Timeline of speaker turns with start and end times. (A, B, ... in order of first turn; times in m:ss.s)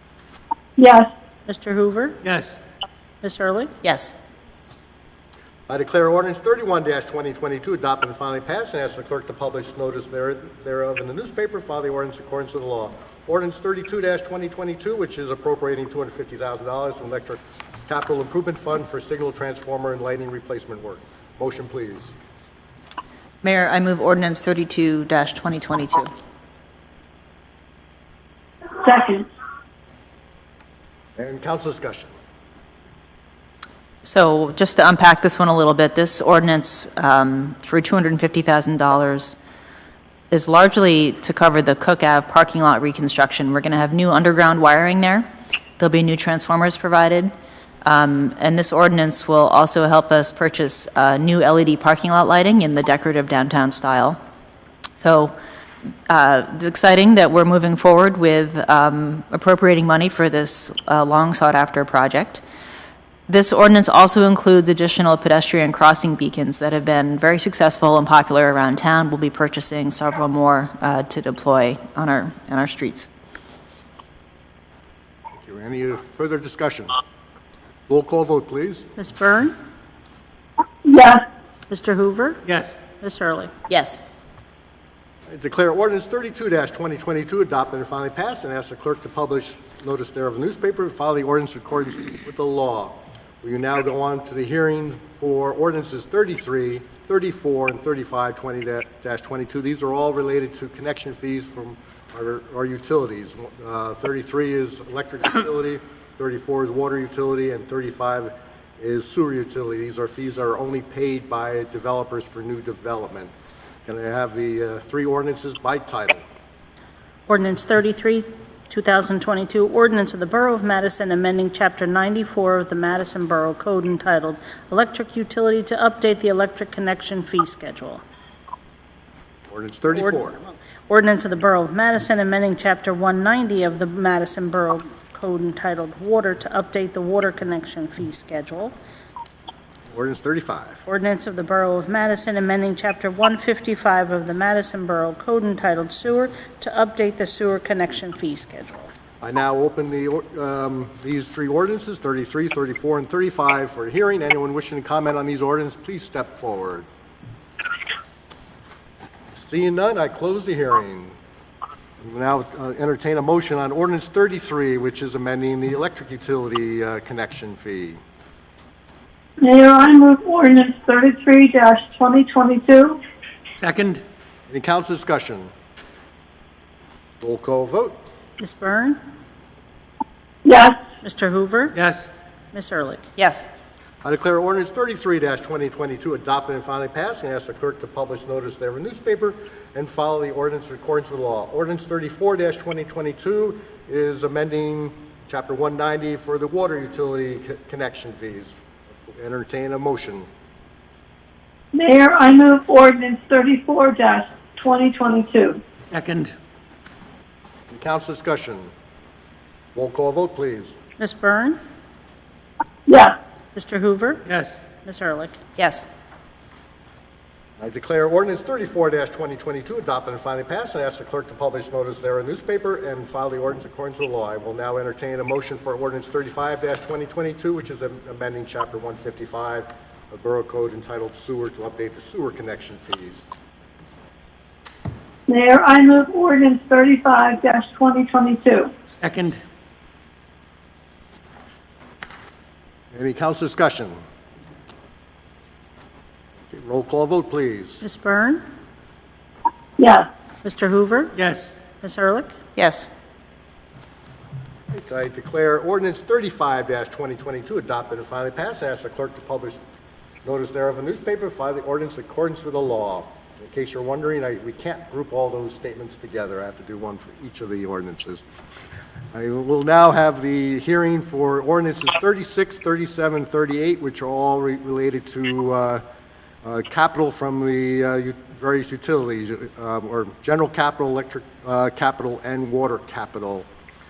0:00.8-0:01.1 A
0:01.5-0:02.2 B
0:02.2-0:02.6 C
0:03.2-0:03.7 B
0:03.8-0:04.2 D
0:05.7-0:22.2 E
0:23.4-0:26.1 D
0:28.8-0:29.3 A
0:31.2-0:32.1 E
0:34.0-0:39.4 D
0:40.3-0:45.3 D
0:45.8-0:47.3 D
0:47.8-0:54.2 D
0:55.0-0:55.3 D
0:56.1-1:02.4 D
1:03.3-1:13.1 D
1:15.4-1:17.0 E
1:17.9-1:18.9 E
1:19.0-1:19.5 B
1:20.8-1:21.2 A
1:21.7-1:22.4 B
1:22.5-1:22.8 C
1:23.0-1:23.5 B
1:23.7-1:24.0 D
1:25.3-1:53.3 E
1:53.9-1:56.2 E
1:57.3-2:08.0 B
2:09.5-2:10.4 E
2:10.9-2:18.8 B
2:19.9-2:20.8 E
2:20.8-2:28.9 B
2:29.2-2:36.9 E
2:39.3-2:41.2 E
2:42.0-2:48.0 E
2:49.4-2:53.0 A
2:53.5-2:54.0 C
2:54.5-2:55.5 E
2:57.2-2:58.0 E
2:58.4-2:59.0 B
3:00.4-3:00.8 A
3:01.0-3:01.8 B
3:01.8-3:02.1 C
3:02.5-3:03.1 B
3:03.2-3:03.5 D
3:04.0-3:18.6 E
3:19.1-3:20.3 E
3:21.7-3:25.6 A
3:25.9-3:26.3 C
3:27.7-3:28.7 E
3:29.8-3:30.8 E
3:31.0-3:31.6 B
3:32.9-3:33.2 A
3:33.6-3:34.2 B
3:34.3-3:34.6 C
3:34.8-3:35.4 B
3:35.6-3:35.9 D
3:37.6-3:53.3 E
3:55.3-3:58.7 A
3:58.9-3:59.4 C
4:02.9-4:04.0 E
4:06.5-4:07.8 E
4:07.8-4:08.4 B
4:09.8-4:10.1 A
4:10.4-4:11.1 B
4:11.2-4:11.6 C
4:11.8-4:12.4 B
4:12.6-4:12.9 D
4:14.7-4:19.6 E
4:20.2-4:28.2 E
4:29.1-4:35.8 E
4:36.4-4:43.5 E